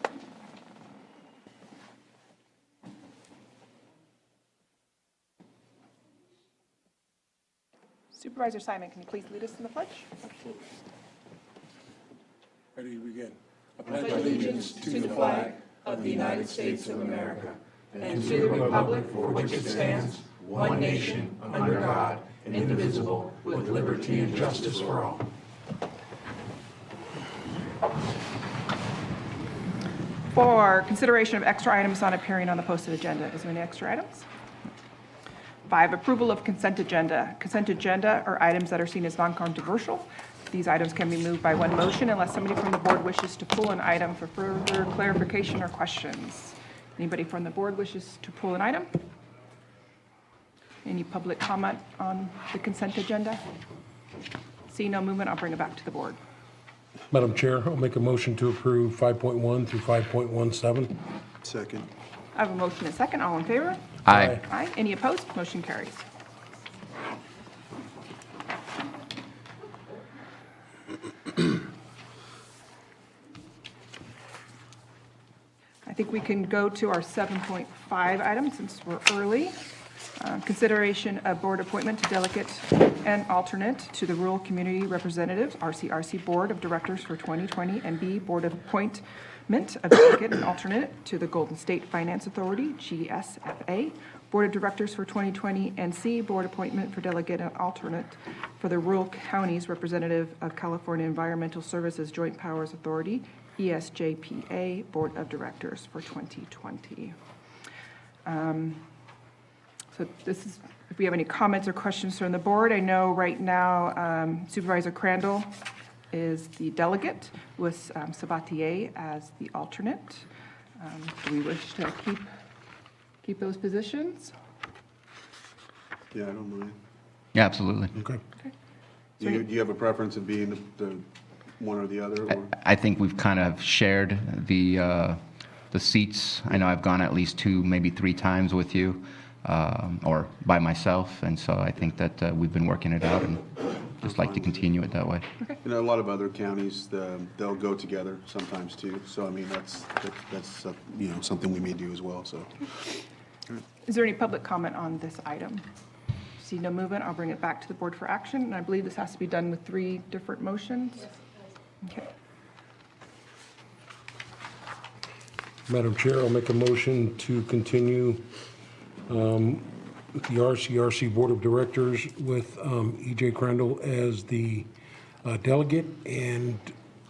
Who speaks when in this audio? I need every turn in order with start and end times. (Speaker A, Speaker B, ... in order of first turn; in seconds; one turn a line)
Speaker A: 8.1-10.2
Speaker B: 12.8-15.2
Speaker A: 14.0-24.1
Speaker B: 24.1-24.9
Speaker A: 30.3-34.3
Speaker A: 35.7-48.9
Speaker A: 50.9-53.4
Speaker A: 54.7-56.2
Speaker B: 57.1-61.0
Speaker C: 61.4-61.9
Speaker A: 62.4-66.0
Speaker D: 64.0-64.4
Speaker B: 64.1-64.4
Speaker A: 75.8-79.6
Speaker A: 80.2-107.2
Speaker A: 108.2-108.8
Speaker A: 109.9-115.5
Speaker A: 116.1-120.3
Speaker A: 120.8-122.3
Speaker A: 123.2-124.3
Speaker C: 126.1-126.8
Speaker D: 127.3-127.9
Speaker C: 129.2-131.1
Speaker C: 131.6-132.5
Speaker D: 132.3-135.2
Speaker D: 135.7-143.4
Speaker D: 144.0-145.3
Speaker C: 144.0-144.8
Speaker C: 145.6-152.7
Speaker A: 153.8-155.7
Speaker A: 156.4-161.2
Speaker B: 165.7-168.3
Speaker B: 169.1-174.7
Speaker B: 175.2-176.7